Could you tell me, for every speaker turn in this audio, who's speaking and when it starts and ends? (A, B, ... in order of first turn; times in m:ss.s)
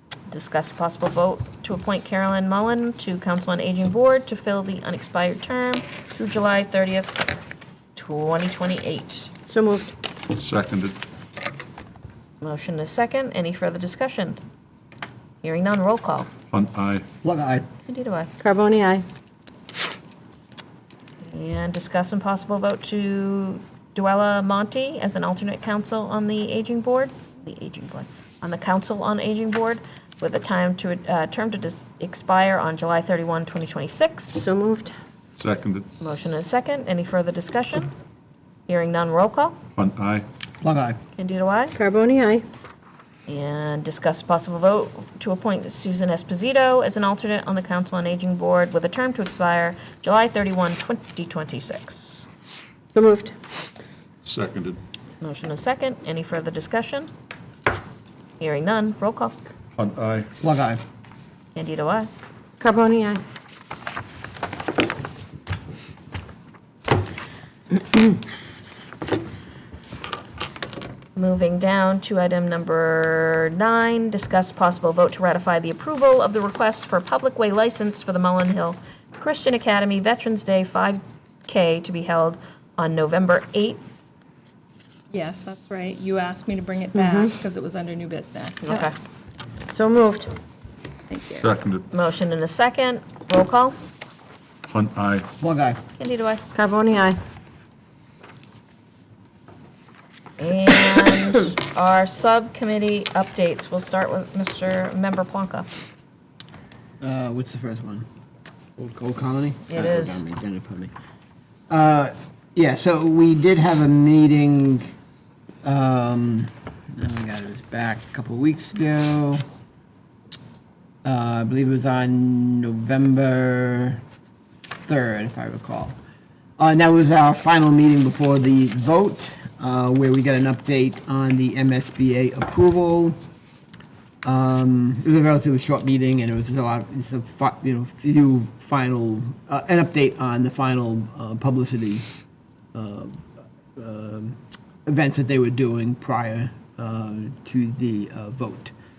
0:00.3-0:07.3 A
0:07.9-0:09.3 A
0:09.5-0:09.9 B
0:10.3-0:11.0 C
0:12.4-0:14.4 A
0:15.4-0:16.3 A
0:16.5-0:17.0 C
0:17.2-0:17.7 D
0:17.8-0:18.3 A
0:18.4-0:19.0 B
0:21.2-0:34.4 A
0:34.3-0:34.9 B
0:35.4-0:35.9 C
0:36.0-0:37.9 A
0:38.7-0:39.6 A
0:39.8-0:40.2 C
0:40.6-0:41.0 D
0:41.2-0:41.8 A
0:41.8-0:42.4 B
0:43.3-0:52.2 A
0:52.9-0:53.3 B
0:54.2-0:54.8 C
0:55.2-0:57.1 A
0:58.4-0:59.4 A
0:59.7-1:00.3 C
1:00.4-1:00.8 D
1:01.5-1:02.1 A
1:02.6-1:03.2 B
1:11.2-1:23.9 A
1:25.1-1:28.8 E
1:26.9-1:27.3 B
1:28.6-1:28.9 A
1:29.7-1:30.3 B
1:31.1-1:31.5 E
1:31.4-1:31.9 C
1:31.9-1:33.7 A
1:34.7-1:35.2 C
1:35.4-1:35.8 D
1:36.0-1:36.4 A
1:36.5-1:37.2 B
1:40.4-1:45.7 A
1:47.0-1:48.0 D
1:48.8-1:50.9 D
1:49.7-1:50.2 A
1:51.7-1:54.9 D
1:55.6-1:59.4 D
2:01.0-2:04.0 D
2:04.8-2:06.0 D
2:06.6-2:13.2 D
2:14.2-2:22.0 D
2:22.7-2:28.7 D